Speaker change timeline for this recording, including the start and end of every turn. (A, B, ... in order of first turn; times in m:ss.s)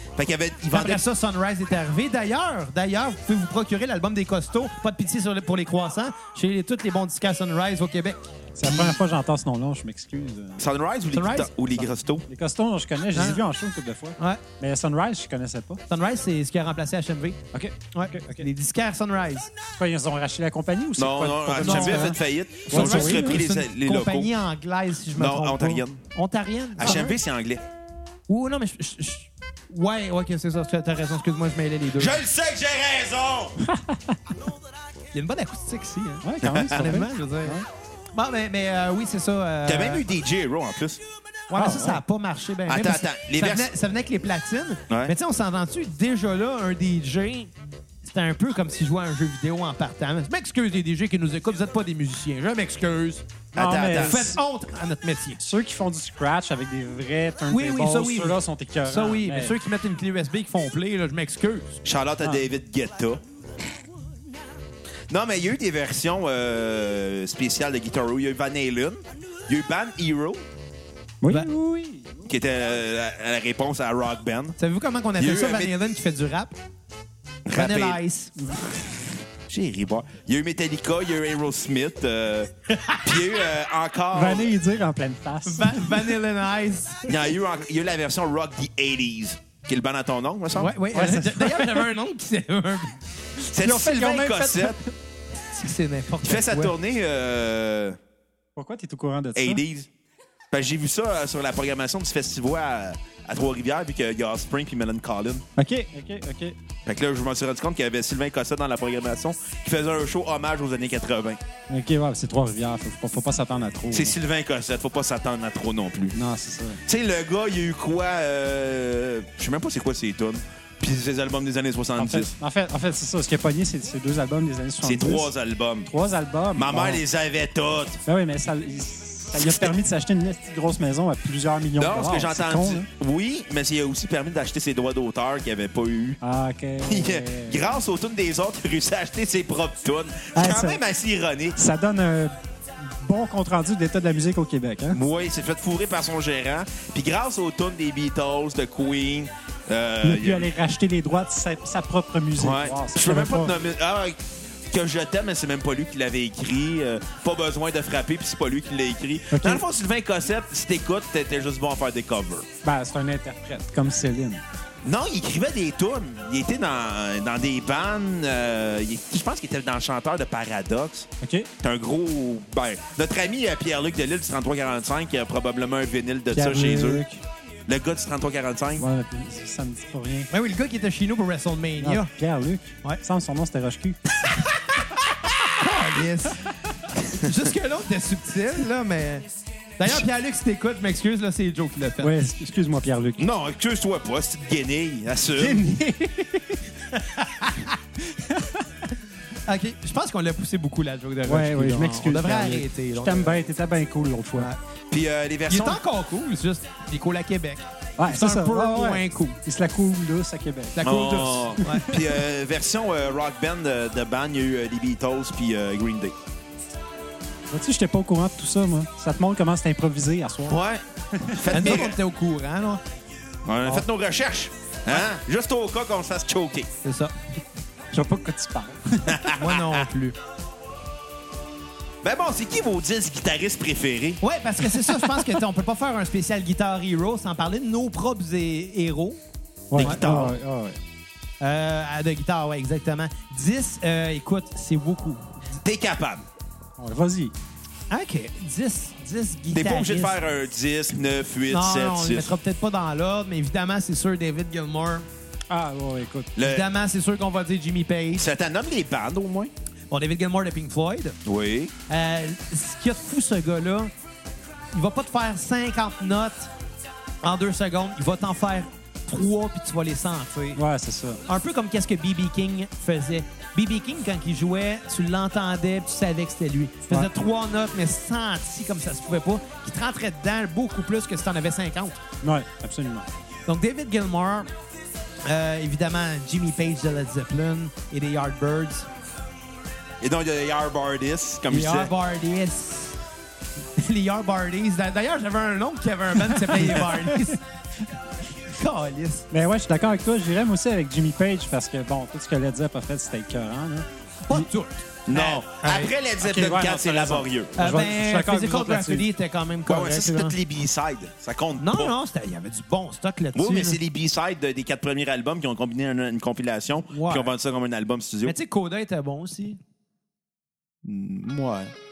0:00.2-0:01.0 A
0:00.7-0:09.0 B
0:08.5-0:10.6 C
0:10.6-0:12.2 A
0:11.1-0:11.5 B
0:12.3-0:15.8 C
0:13.1-0:13.4 B
0:15.9-0:17.4 B
0:17.5-0:18.5 C
0:17.9-0:19.5 B
0:19.8-0:23.4 C
0:21.0-0:24.3 A
0:21.6-0:27.2 B
0:25.1-0:26.0 A
0:26.8-0:27.6 A
0:28.3-0:32.2 B
0:32.0-0:33.6 A
0:33.7-0:34.1 C
0:35.1-0:37.6 B
0:36.2-0:37.6 C
0:36.4-0:36.9 A
0:38.1-0:40.0 B
0:39.6-0:41.0 A
0:41.5-0:53.2 B
0:41.5-0:42.0 C
0:42.7-0:43.7 A
0:53.5-0:54.3 A
0:53.5-0:54.4 C
0:53.9-0:55.4 B
0:55.4-0:59.6 C
0:57.5-1:01.8 B
1:01.8-1:03.2 A
1:02.2-1:02.4 C
1:05.1-1:10.4 A
1:11.2-1:12.2 C
1:12.3-1:14.6 A
1:14.6-1:16.5 B
1:15.2-1:15.7 A
1:17.5-1:18.0 A
1:17.5-1:18.3 B
1:19.5-1:22.5 A
1:22.7-1:23.2 B
1:23.0-1:24.5 A
1:24.1-1:26.1 C
1:25.4-1:27.1 B
1:27.0-1:30.7 A
1:30.5-1:33.0 B
1:30.9-1:31.9 C
1:33.5-1:34.8 A
1:33.6-1:34.8 C
1:33.7-1:34.7 B
1:35.5-1:36.7 B
1:36.2-1:38.0 A
1:38.6-1:39.6 C
1:39.3-1:39.9 A
1:40.5-1:45.4 A
1:45.6-1:46.6 C
1:46.8-1:51.4 A
1:51.7-1:54.2 C
1:53.9-1:56.2 A
1:56.1-1:56.8 C
1:56.8-2:02.3 A
2:02.0-2:05.3 C
2:04.8-2:05.9 A
2:05.8-2:07.0 C
2:06.5-2:08.0 A
2:08.0-2:12.9 C
2:09.3-2:09.7 A
2:11.8-2:16.2 A
2:16.2-2:17.7 C
2:16.8-2:21.6 A
2:20.3-2:20.8 C
2:21.6-2:25.0 C
2:24.9-2:30.5 A
2:30.0-2:33.5 C
2:32.4-2:34.2 A
2:34.7-2:42.5 A
2:39.3-2:39.6 C
2:42.6-2:44.4 C
2:44.8-2:51.1 A
2:51.2-2:51.5 C
2:51.6-2:57.0 A
2:56.3-2:57.2 C
2:57.7-2:58.8 A
2:58.8-3:00.3 C
3:00.3-3:02.1 B
3:01.8-3:04.0 C
3:05.5-3:06.4 B
3:07.1-3:09.2 B
3:09.8-3:12.1 B
3:12.0-3:13.2 C
3:13.2-3:15.6 A
3:15.4-3:16.6 C
3:16.9-3:17.8 B
3:18.1-3:18.6 C
3:19.5-3:23.4 B
3:21.2-3:24.5 C
3:24.9-3:25.8 A
3:25.5-3:29.4 B
3:28.0-3:30.8 C
3:30.8-3:31.9 B
3:30.8-3:36.1 A
3:31.6-3:32.2 C
3:37.5-3:40.6 C
3:40.5-3:42.0 A
3:41.1-3:41.8 C
3:41.5-3:42.8 B
3:43.4-3:46.7 A
3:46.8-3:47.1 B
3:47.9-3:49.3 C
3:49.1-3:49.8 A
3:49.3-3:50.1 B
3:52.0-3:54.2 A
3:54.2-3:59.2 B
3:54.9-3:55.2 C
3:59.7-4:00.8 C
3:59.8-4:00.3 A
3:59.8-4:00.0 B
4:01.4-4:05.4 B
4:05.6-4:06.3 A
4:06.8-4:07.3 C
4:07.9-4:10.2 B
4:09.5-4:12.3 A
4:11.5-4:15.1 B
4:15.5-4:16.3 C
4:16.4-4:16.7 A
4:16.4-4:18.2 B
4:18.2-4:19.5 A
4:19.9-4:21.2 B
4:21.2-4:21.7 A
4:21.9-4:23.9 B
4:24.7-4:26.5 B
4:27.2-4:30.6 B
4:30.6-4:31.2 C
4:31.2-4:42.0 B
4:42.2-4:43.1 C
4:43.5-4:44.5 B
4:45.2-4:48.9 B
4:50.0-4:51.9 A
4:51.5-4:53.0 B
4:53.8-4:57.4 B
4:56.5-4:57.4 C
4:58.5-4:59.3 B
4:59.3-5:04.5 C
5:04.2-5:05.5 B
5:05.1-5:07.6 A
5:05.6-5:09.0 C
5:07.6-5:10.3 B
5:09.7-5:11.9 A
5:11.6-5:13.8 B
5:13.3-5:18.4 A
5:16.9-5:17.3 B
5:18.2-5:19.6 B
5:20.8-5:21.7 A